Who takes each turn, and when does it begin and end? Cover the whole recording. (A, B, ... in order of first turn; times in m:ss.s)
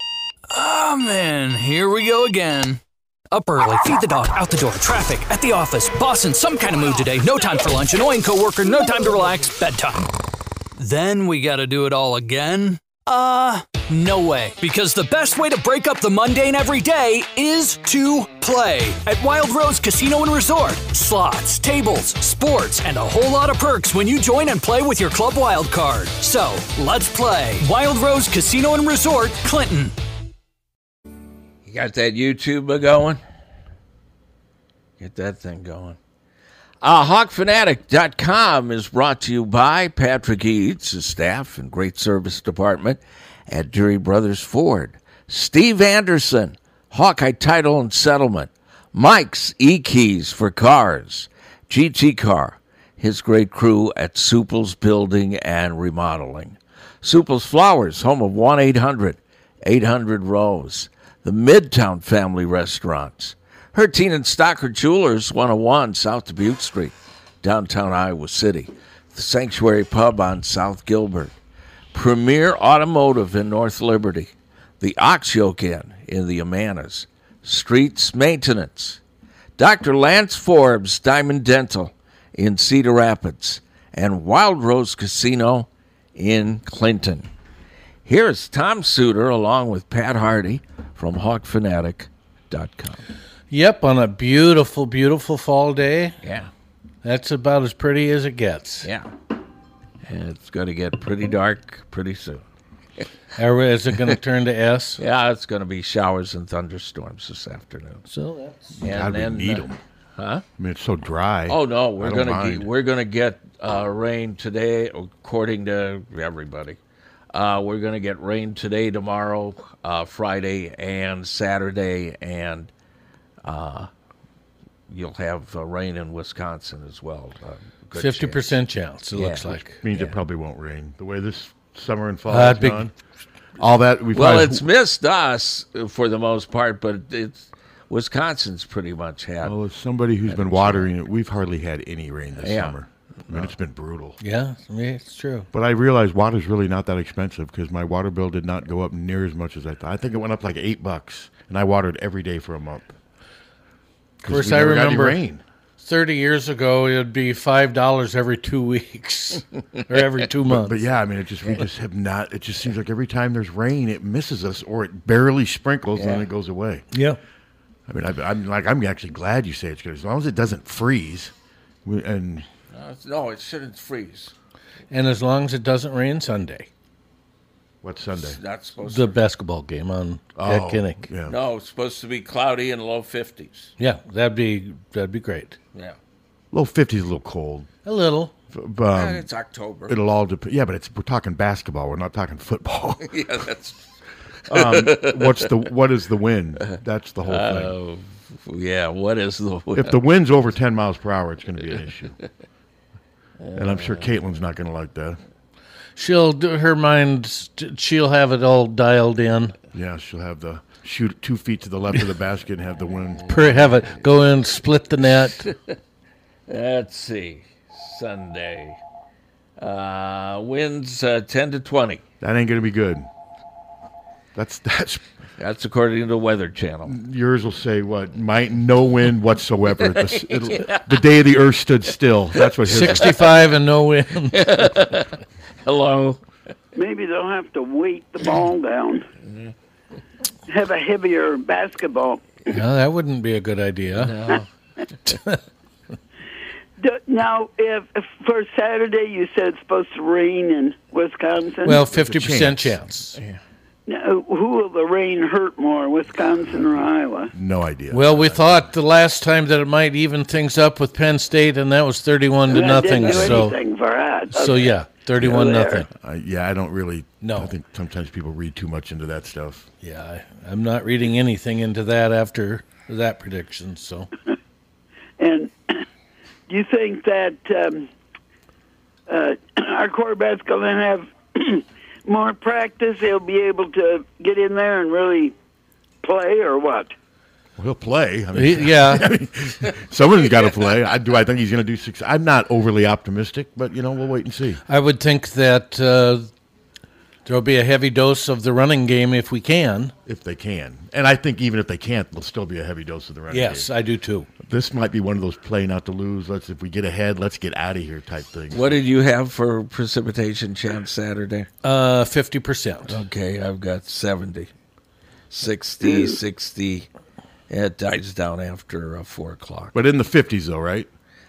0:00.5-0:02.8 A
0:03.3-0:10.1 A
0:10.8-0:29.9 A
0:31.6-0:33.2 B
0:35.0-0:36.0 B
0:36.8-1:11.3 B
1:11.9-1:19.0 B
1:19.6-1:27.3 B
1:28.0-1:33.0 B
1:33.5-1:36.2 C
1:36.2-1:36.5 B
1:37.0-1:38.9 C
1:38.8-1:39.1 B
1:40.0-1:42.4 B
1:43.4-1:45.0 C
1:45.0-1:48.0 B
1:48.1-1:48.8 C
1:48.8-1:49.8 D
1:48.8-1:49.6 B
1:50.2-1:50.4 B
1:50.6-1:52.7 D
1:51.5-1:56.8 B
1:57.3-2:02.7 B
2:03.4-2:03.9 B
2:04.9-2:08.6 B
2:07.9-2:09.8 C
2:09.1-2:10.1 B
2:09.8-2:12.9 D
2:12.3-2:12.9 C
2:13.6-2:14.6 D
2:14.1-2:19.6 B
2:19.4-2:24.2 D
2:20.3-2:20.9 B
2:22.4-2:23.5 B
2:24.2-2:25.5 C
2:25.5-2:32.9 D
2:34.2-2:35.4 D
2:34.3-2:35.2 C
2:35.8-2:40.8 C
2:40.5-2:46.8 D
2:46.0-2:46.3 B
2:46.9-2:47.2 C
2:47.9-2:51.3 D
2:51.8-2:52.5 D
2:52.7-2:54.3 B
2:54.9-2:56.7 C
2:57.8-2:58.4 D
2:58.2-2:59.2 B
2:58.8-3:01.0 C
3:00.4-3:01.4 D
3:01.3-3:03.7 B
3:03.8-3:05.6 C
3:06.5-3:07.7 D
3:07.8-3:08.3 C
3:08.5-3:09.3 D
3:08.9-3:10.0 B
3:09.9-3:13.2 D
3:13.0-3:13.8 B
3:14.5-3:15.5 B
3:14.5-3:17.7 D
3:17.2-3:19.9 B
3:19.7-3:22.1 D
3:23.4-3:24.1 B
3:23.5-3:25.2 D
3:26.0-3:29.5 C
3:29.7-3:33.2 D
3:33.3-3:35.5 C
3:36.5-3:38.8 B
3:39.6-3:42.0 B
3:42.2-3:43.1 D
3:44.3-3:45.0 D
3:45.4-3:47.0 B
3:46.8-3:53.2 D
3:49.9-3:50.9 B
3:52.4-3:53.3 B
3:52.7-3:54.6 C
3:54.3-3:56.2 B
3:56.7-3:59.0 E
4:00.5-4:02.2 E
4:02.5-4:04.1 C
4:03.9-4:04.5 B
4:05.0-4:05.4 C
4:06.8-4:11.8 E
4:11.6-4:13.2 C
4:11.8-4:12.8 D
4:13.9-4:17.3 E
4:17.3-4:18.7 D
4:17.9-4:23.5 C
4:22.5-4:25.8 E
4:22.5-4:23.4 B
4:24.3-4:25.9 C
4:25.9-4:29.7 D
4:27.2-4:27.5 C
4:29.8-4:34.1 C
4:35.2-4:35.8 E
4:36.5-4:37.9 E
4:39.1-4:45.3 E
4:46.0-4:46.9 E
4:47.6-4:54.6 D
4:48.3-4:49.2 C
4:54.7-4:56.3 C
4:57.2-4:59.9 C
5:00.0-5:03.7 D
5:03.3-5:04.3 C
5:04.4-5:08.8 D
5:08.5-5:11.5 B
5:11.6-5:13.0 C
5:12.9-5:14.5 B
5:15.3-5:16.9 B
5:17.5-5:19.7 B
5:19.7-5:20.9 D